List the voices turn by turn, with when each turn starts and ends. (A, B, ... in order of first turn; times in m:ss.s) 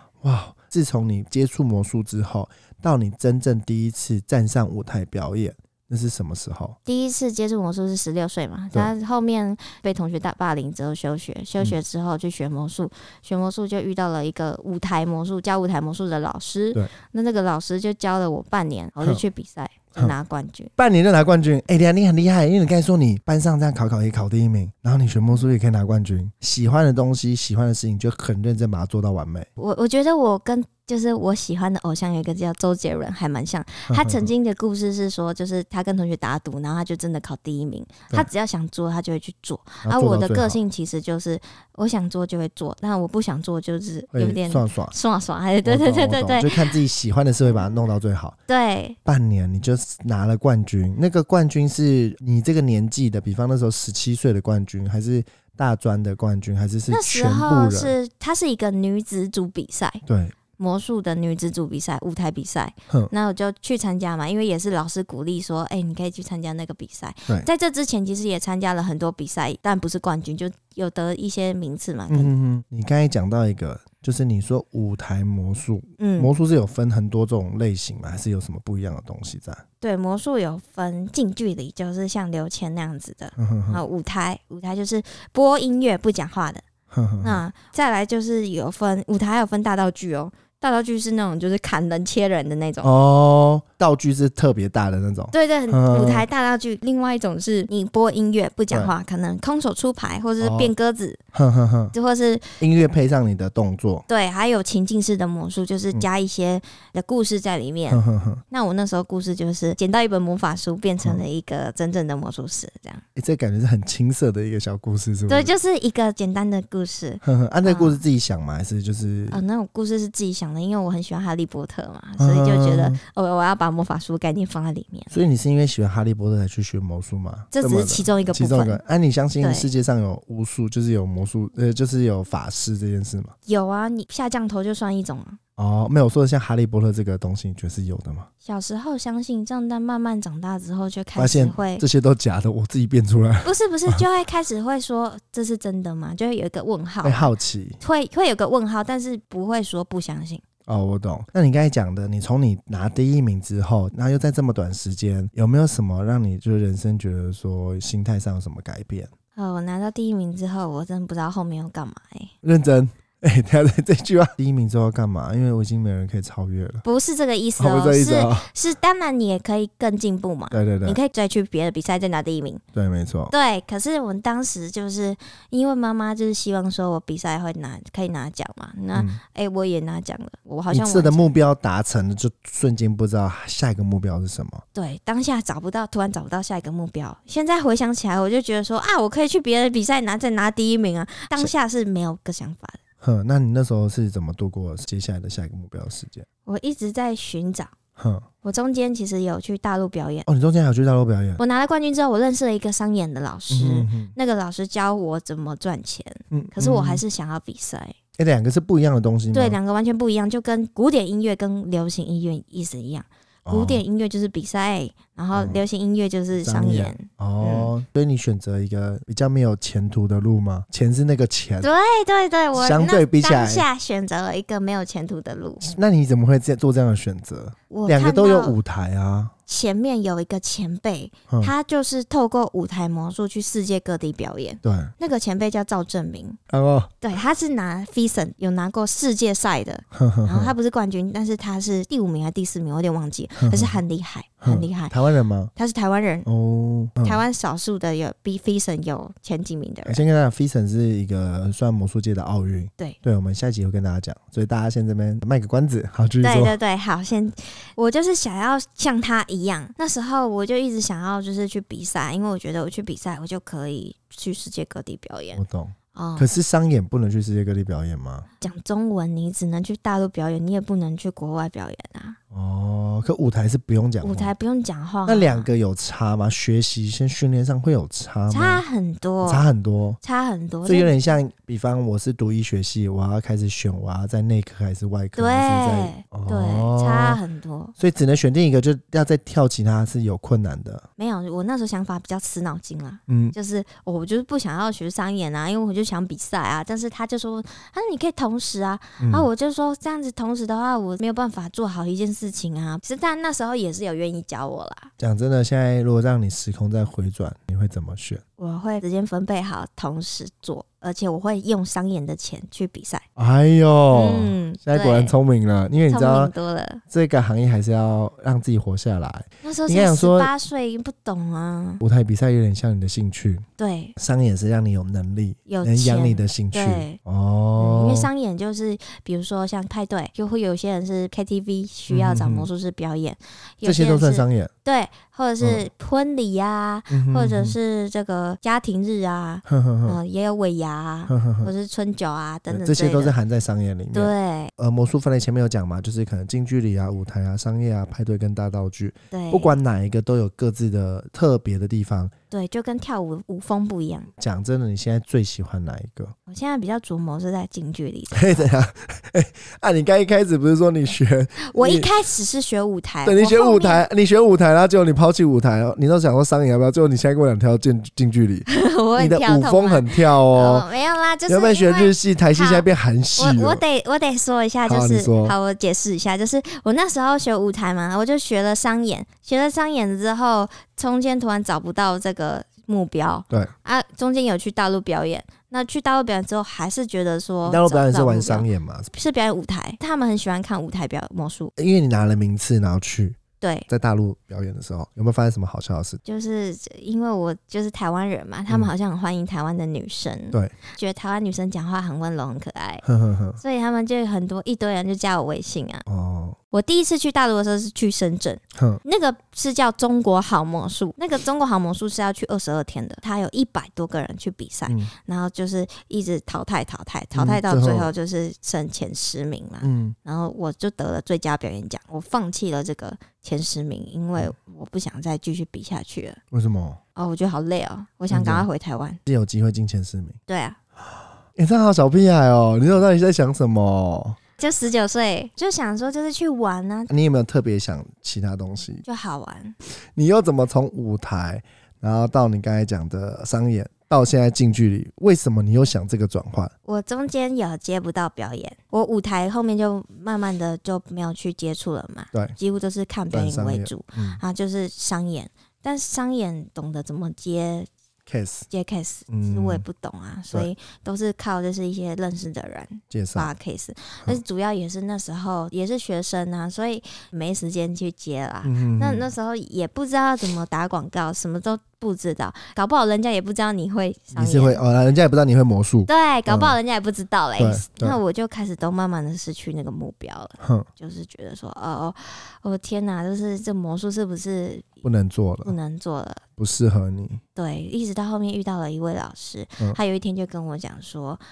0:00.2-0:06.8 A
0:06.9-0:20.7 B
0:20.8-0:29.5 A
0:29.6-0:46.7 B
0:33.9-0:34.3 A
0:39.8-0:40.6 A
0:44.1-0:45.0 A
0:45.6-0:48.4 A
0:48.5-0:49.0 B
0:49.0-0:58.0 A
0:56.9-1:00.0 B
1:00.1-1:00.4 A
1:00.6-1:12.3 B
1:12.1-1:19.6 A
1:16.0-1:16.3 B
1:19.8-1:26.6 B
1:23.4-1:23.8 A
1:26.9-1:27.4 A
1:27.2-1:32.9 B
1:32.8-1:36.3 A
1:35.3-1:41.2 B
1:40.4-1:40.7 A
1:41.3-1:41.9 A
1:41.9-1:42.6 B
1:42.6-1:44.0 A
1:44.1-1:53.0 B
1:47.9-1:48.4 A
1:53.2-1:55.5 A
1:55.3-1:58.0 B
1:57.2-1:59.4 A
1:59.3-2:05.1 B
2:02.2-2:03.0 A
2:05.1-2:13.3 A
2:07.5-2:08.8 B
2:09.4-2:09.7 B
2:13.5-2:15.4 B
2:15.6-2:18.3 A
2:18.4-2:21.8 B
2:21.2-2:24.0 A
2:23.4-2:27.3 B
2:27.0-2:27.8 A
2:27.8-2:30.4 B
2:30.7-2:39.1 A
2:39.4-2:42.3 B
2:42.4-2:46.8 A
2:46.8-2:52.6 B
2:47.6-2:48.5 A
2:50.5-2:51.0 A
2:52.7-2:53.3 A
2:53.3-3:01.2 B
2:58.9-2:59.2 A
3:00.7-3:04.6 A
3:04.8-3:12.8 B
3:13.0-3:16.3 A
3:16.5-3:17.7 B
3:18.0-3:18.3 A
3:18.4-3:20.3 B
3:20.3-3:21.4 A
3:21.4-3:28.0 B
3:23.5-3:24.1 A
3:26.3-3:27.0 A
3:28.2-3:29.6 A
3:29.3-3:37.7 B
3:33.5-3:33.8 A
3:35.3-3:35.6 A
3:36.4-3:41.7 A
3:41.6-3:45.7 B
3:42.6-3:43.7 A
3:45.6-3:49.3 A
3:47.7-3:48.6 B
3:49.5-3:56.4 B
3:54.6-3:54.9 A
3:56.5-3:56.9 A
3:57.0-4:05.0 B
3:59.9-4:00.5 A
4:03.4-4:03.8 A
4:04.4-4:05.5 A
4:05.6-4:06.3 B
4:06.3-4:07.2 A
4:07.0-4:10.0 B
4:09.9-4:16.6 A
4:16.2-4:25.4 B
4:25.4-4:28.3 A
4:25.9-4:26.3 B
4:28.4-4:32.2 B
4:32.3-4:34.3 A
4:34.0-4:35.5 B
4:35.1-4:38.6 A
4:38.3-4:39.5 B
4:39.2-4:40.0 A
4:40.0-4:41.0 B
4:40.6-4:47.2 A
4:45.2-4:47.7 B
4:47.8-4:50.9 A
4:51.0-5:04.9 B
4:53.1-4:53.4 A
4:59.0-4:59.3 A
5:05.0-5:08.2 A
5:08.4-5:13.0 B
5:13.2-5:16.3 A
5:13.9-5:15.1 B
5:15.9-5:16.8 B
5:16.9-5:20.3 A
5:19.4-5:21.8 B
5:21.8-5:23.4 A
5:23.6-5:24.0 B
5:24.0-5:28.1 A
5:25.5-5:27.0 B
5:27.6-5:43.2 B
5:31.9-5:32.5 A
5:33.6-5:34.5 A
5:36.9-5:37.6 A
5:39.5-5:40.0 A
5:41.1-5:41.5 A
5:42.5-5:52.1 A
5:43.9-5:44.5 B
5:49.1-5:49.6 B
5:52.3-5:54.1 B
5:54.2-5:56.1 A
5:56.3-5:58.5 B
5:58.1-6:01.9 A
6:01.5-6:03.9 B
6:03.0-6:10.7 A
6:08.5-6:31.5 B
6:11.3-6:13.6 A
6:14.6-6:15.4 A
6:27.4-6:28.9 A
6:31.6-6:36.0 A
6:33.4-6:33.7 B
6:36.0-6:42.8 B
6:42.8-6:43.4 A
6:43.4-6:45.9 B
6:45.9-6:46.4 A
6:46.5-7:06.2 B
6:48.6-6:48.8 A
6:57.1-6:57.9 A
6:59.6-7:00.0 A
7:06.3-7:06.8 A
7:07.0-7:09.0 B
7:08.1-7:08.5 A
7:09.1-7:10.2 A
7:10.3-7:10.6 B
7:11.4-7:14.2 A
7:14.4-7:16.9 B
7:16.9-7:18.8 A
7:18.8-7:19.6 B
7:19.7-7:26.5 A
7:26.6-7:37.7 B
7:33.1-7:34.2 A
7:38.1-7:38.5 A
7:38.5-7:54.6 B
7:39.1-7:39.6 A
7:42.9-7:43.3 A
7:48.4-7:49.1 A
7:54.2-7:56.6 A
7:55.9-8:04.8 B
7:57.4-7:58.0 A
8:00.4-8:00.7 A
8:04.8-8:05.5 A
8:05.4-8:06.2 B
8:06.4-8:07.2 A
8:07.4-8:11.2 B